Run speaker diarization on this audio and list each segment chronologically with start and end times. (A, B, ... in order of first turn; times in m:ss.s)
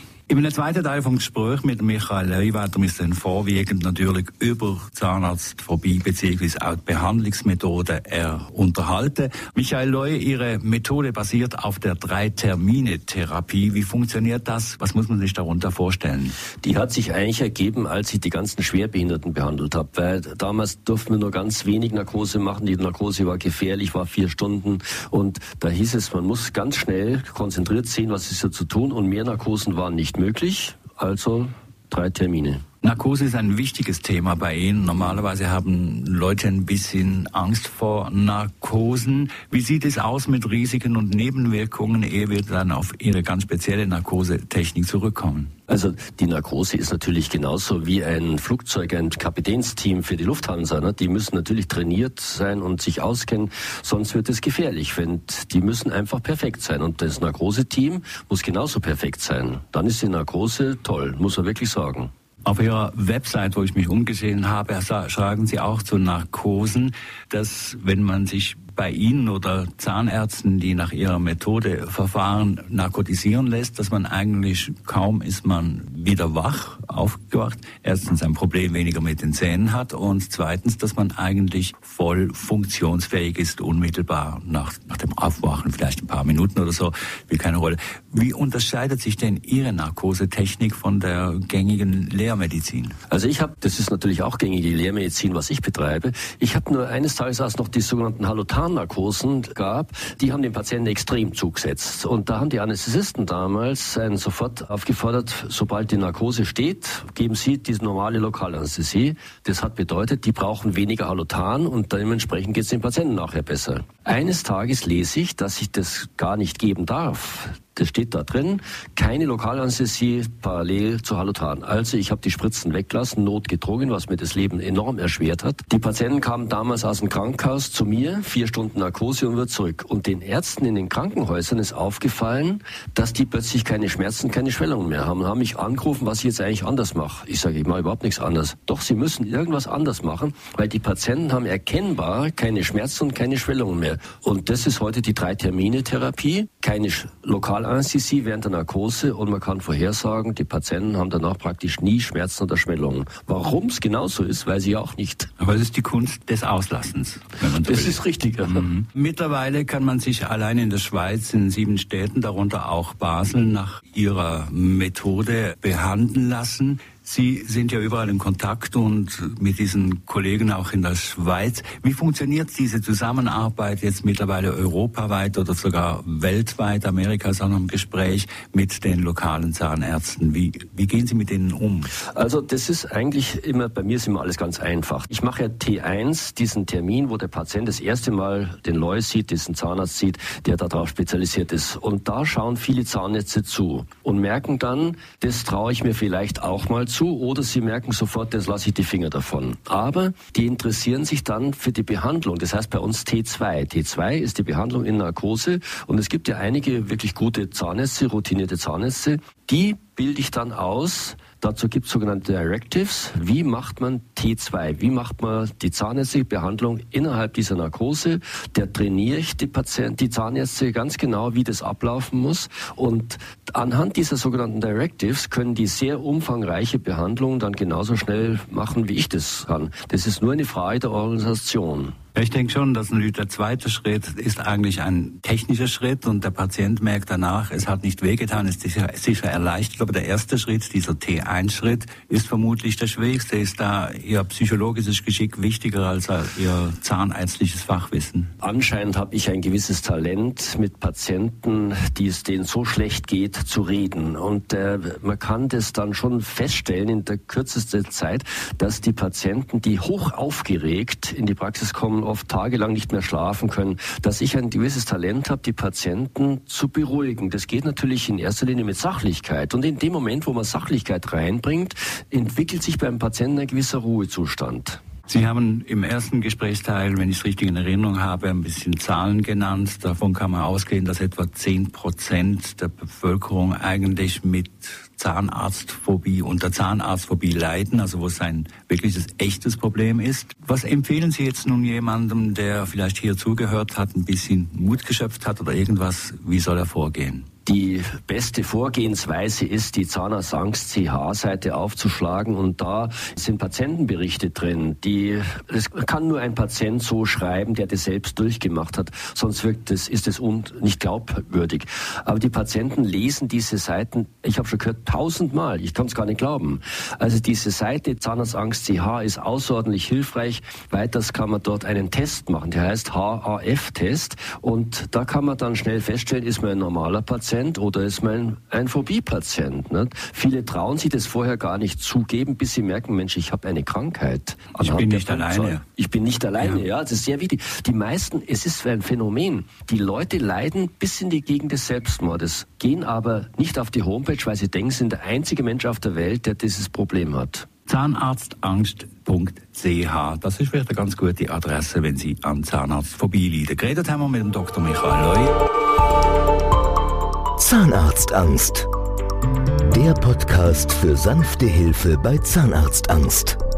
0:00.3-0:16.4 A
0:16.6-0:32.6 B
0:32.8-0:45.5 A
0:45.7-1:02.1 B
1:02.4-1:32.9 A
1:33.1-2:35.3 B
2:35.4-3:01.9 A
2:37.6-2:38.7 B
3:02.1-3:52.0 B
3:52.2-4:08.3 A
4:08.4-4:34.8 B
4:35.1-4:57.2 A
4:57.4-5:47.5 B
5:34.5-5:35.6 A
5:36.4-5:36.6 A
5:47.7-5:55.3 A
5:57.4-5:58.7 C
5:59.6-6:03.4 C